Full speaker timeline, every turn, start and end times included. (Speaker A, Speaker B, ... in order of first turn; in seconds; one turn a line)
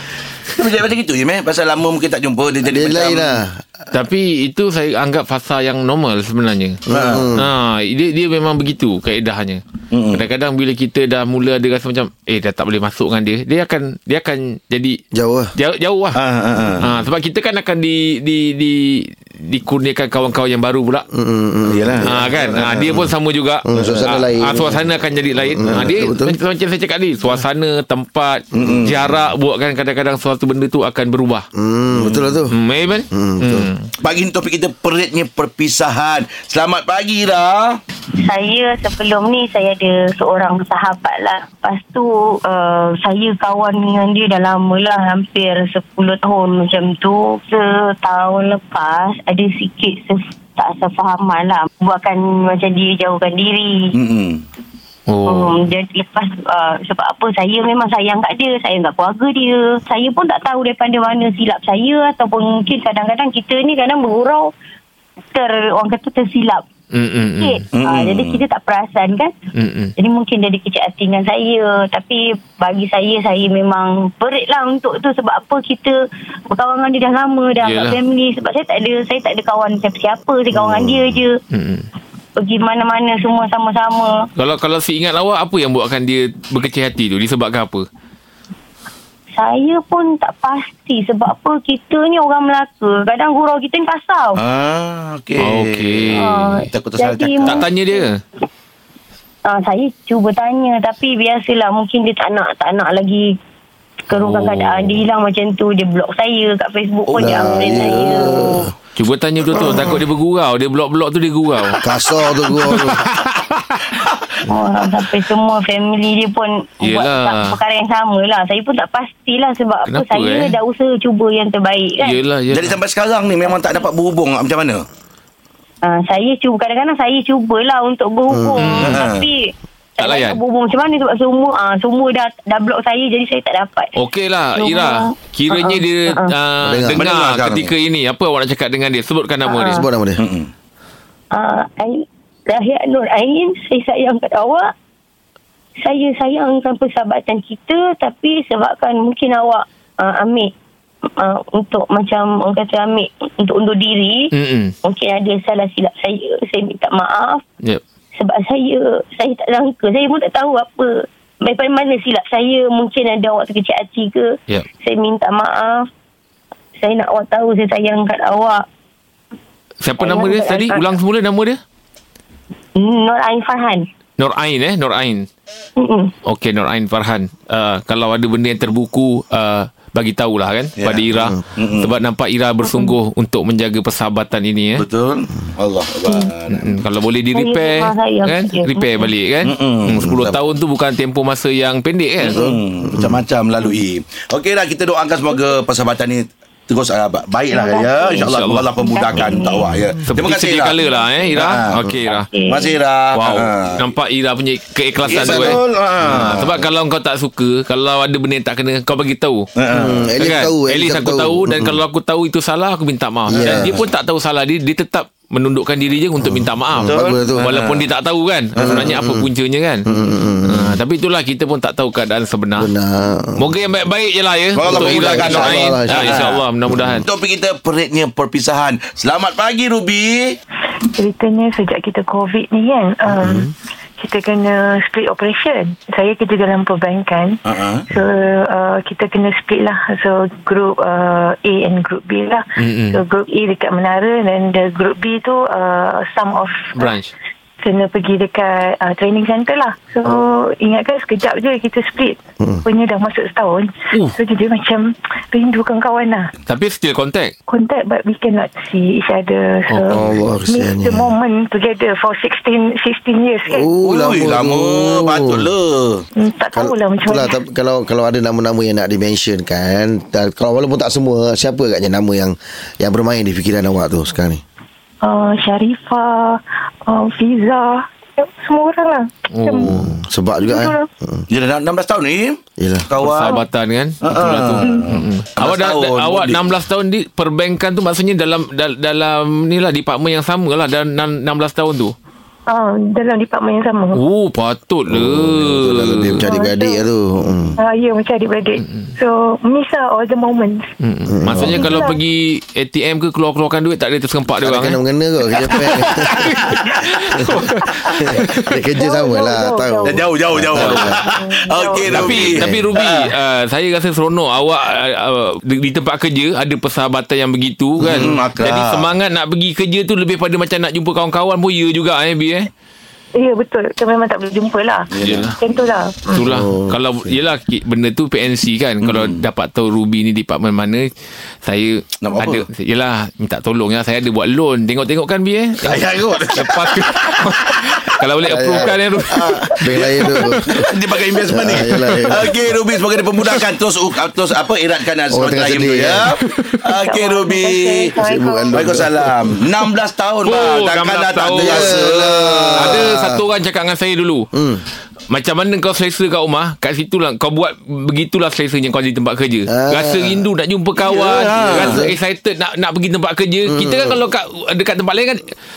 Speaker A: 0.6-3.4
Speaker B: 2.6-3.6
Speaker C: 3.9-6.8
Speaker B: 6.9-7.5
Speaker A: 6.9-7.3
Speaker C: 7.3-15.0
Speaker A: 9.9-10.2
Speaker B: 15.1-15.5
Speaker C: 15.6-16.2
Speaker A: 16.1-16.9
Speaker C: 16.8-21.1
Speaker B: 21.1-22.3
Speaker A: 21.7-23.1
Speaker C: 22.0-31.5
Speaker B: 23.7-26.4
Speaker A: 25.7-25.9
Speaker A: 28.5-29.0
Speaker B: 31.6-32.5
Speaker A: 31.9-32.4
Speaker C: 32.5-33.9
Speaker B: 33.1-33.7
Speaker A: 34.0-37.8
Speaker D: 38.2-53.9
Speaker A: 53.9-54.4
Speaker C: 55.1-55.6
Speaker D: 55.3-64.5
Speaker D: 65.3-66.6
Speaker C: 66.9-67.7
Speaker D: 67.4-69.3
Speaker A: 67.8-68.4
Speaker C: 69.5-70.0
Speaker D: 70.0-76.0
Speaker D: 76.5-81.4
Speaker C: 77.6-78.0
Speaker B: 80.5-81.2
Speaker C: 81.5-81.9
Speaker D: 82.4-84.1
Speaker C: 84.4-87.8
Speaker D: 89.3-94.4
Speaker A: 94.3-97.7
Speaker C: 95.4-96.5
Speaker D: 96.1-98.1
Speaker C: 97.5-98.2
Speaker D: 99.5-103.3
Speaker D: 104.1-108.7
Speaker C: 104.1-105.0
Speaker B: 107.2-108.7
Speaker C: 109.0-111.8
Speaker B: 109.6-110.0
Speaker B: 111.8-113.0
Speaker C: 112.7-113.9
Speaker D: 114.5-122.2
Speaker C: 116.8-117.6
Speaker C: 119.9-120.5
Speaker C: 122.0-122.8
Speaker A: 122.5-124.9
Speaker D: 125.8-133.9
Speaker B: 128.3-128.8
Speaker C: 128.6-129.0
Speaker A: 128.8-129.3
Speaker C: 130.0-130.4
Speaker C: 134.0-139.8
Speaker D: 134.6-136.3
Speaker B: 136.6-137.0
Speaker A: 137.0-137.7
Speaker D: 139.5-139.9
Speaker B: 139.7-140.2
Speaker A: 140.2-140.5
Speaker D: 141.3-144.7
Speaker D: 145.8-150.5
Speaker D: 151.1-154.3
Speaker C: 154.3-154.8
Speaker D: 154.8-157.4
Speaker D: 158.2-165.9
Speaker D: 166.8-168.6
Speaker C: 169.8-171.6
Speaker D: 170.0-170.8
Speaker D: 172.8-173.9
Speaker C: 174.2-175.3
Speaker D: 175.8-176.1
Speaker C: 176.2-184.8
Speaker A: 180.8-181.9
Speaker D: 182.7-182.9
Speaker A: 184.8-186.8
Speaker C: 186.5-192.4
Speaker D: 187.3-189.1
Speaker A: 189.4-190.3
Speaker A: 192.2-200.8
Speaker B: 192.3-193.2
Speaker D: 197.5-199.7
Speaker C: 198.2-199.4
Speaker C: 200.1-202.3
Speaker A: 201.3-201.8
Speaker D: 202.1-202.8
Speaker A: 202.5-203.8
Speaker C: 203.1-209.5
Speaker A: 205.0-206.6
Speaker A: 209.6-210.1
Speaker B: 209.7-211.8
Speaker C: 210.2-219.9
Speaker B: 213.3-213.8
Speaker B: 216.2-217.5
Speaker A: 216.8-217.9
Speaker A: 218.6-218.8
Speaker B: 218.6-219.3
Speaker B: 219.9-220.8
Speaker C: 220.4-222.7
Speaker B: 222.6-223.5
Speaker C: 223.4-227.1
Speaker A: 224.6-226.4
Speaker B: 224.7-227.0
Speaker A: 227.1-230.4
Speaker E: 230.9-246.9
Speaker A: 237.4-237.9
Speaker C: 242.6-243.0
Speaker C: 246.8-247.1
Speaker E: 247.6-256.3
Speaker C: 256.5-257.3
Speaker E: 257.5-263.7
Speaker C: 259.7-260.2
Speaker B: 259.9-261.1
Speaker B: 263.5-265.5
Speaker A: 263.8-266.0
Speaker E: 266.2-267.4
Speaker B: 266.5-274.4
Speaker E: 275.0-279.8
Speaker C: 279.3-280.0
Speaker B: 279.7-281.3
Speaker E: 280.4-280.9
Speaker A: 281.3-283.4
Speaker B: 282.6-282.9
Speaker C: 283.0-291.9
Speaker A: 284.0-286.6
Speaker E: 292.5-294.0
Speaker C: 293.9-296.2
Speaker B: 294.9-297.6
Speaker E: 296.2-296.9
Speaker E: 297.6-300.7
Speaker C: 298.6-298.9
Speaker C: 300.8-304.8
Speaker B: 301.1-301.8
Speaker E: 301.4-302.0
Speaker B: 304.4-306.3
Speaker C: 305.4-308.6
Speaker A: 305.4-306.9
Speaker B: 308.0-311.0
Speaker E: 308.8-310.1
Speaker A: 309.8-313.1
Speaker C: 310.6-310.9
Speaker E: 310.9-311.9
Speaker B: 311.8-312.7
Speaker C: 311.9-322.5
Speaker A: 317.8-318.9
Speaker E: 323.1-326.3
Speaker A: 324.9-325.4
Speaker C: 325.0-325.4
Speaker C: 326.1-330.9
Speaker B: 326.2-327.2
Speaker A: 328.8-329.2
Speaker C: 331.4-335.8
Speaker A: 332.0-332.4
Speaker A: 335.6-337.7
Speaker C: 336.4-340.4
Speaker B: 338.3-340.7
Speaker A: 339.1-348.0
Speaker B: 341.2-342.5
Speaker B: 345.1-346.2
Speaker E: 346.7-348.8
Speaker B: 348.0-349.3
Speaker A: 348.5-352.9
Speaker C: 350.2-351.8
Speaker B: 351.3-353.2
Speaker C: 352.6-354.3
Speaker B: 354.3-354.6
Speaker C: 355.1-365.2
Speaker B: 359.5-360.3
Speaker A: 360.8-361.8
Speaker B: 361.3-361.9
Speaker B: 363.5-364.0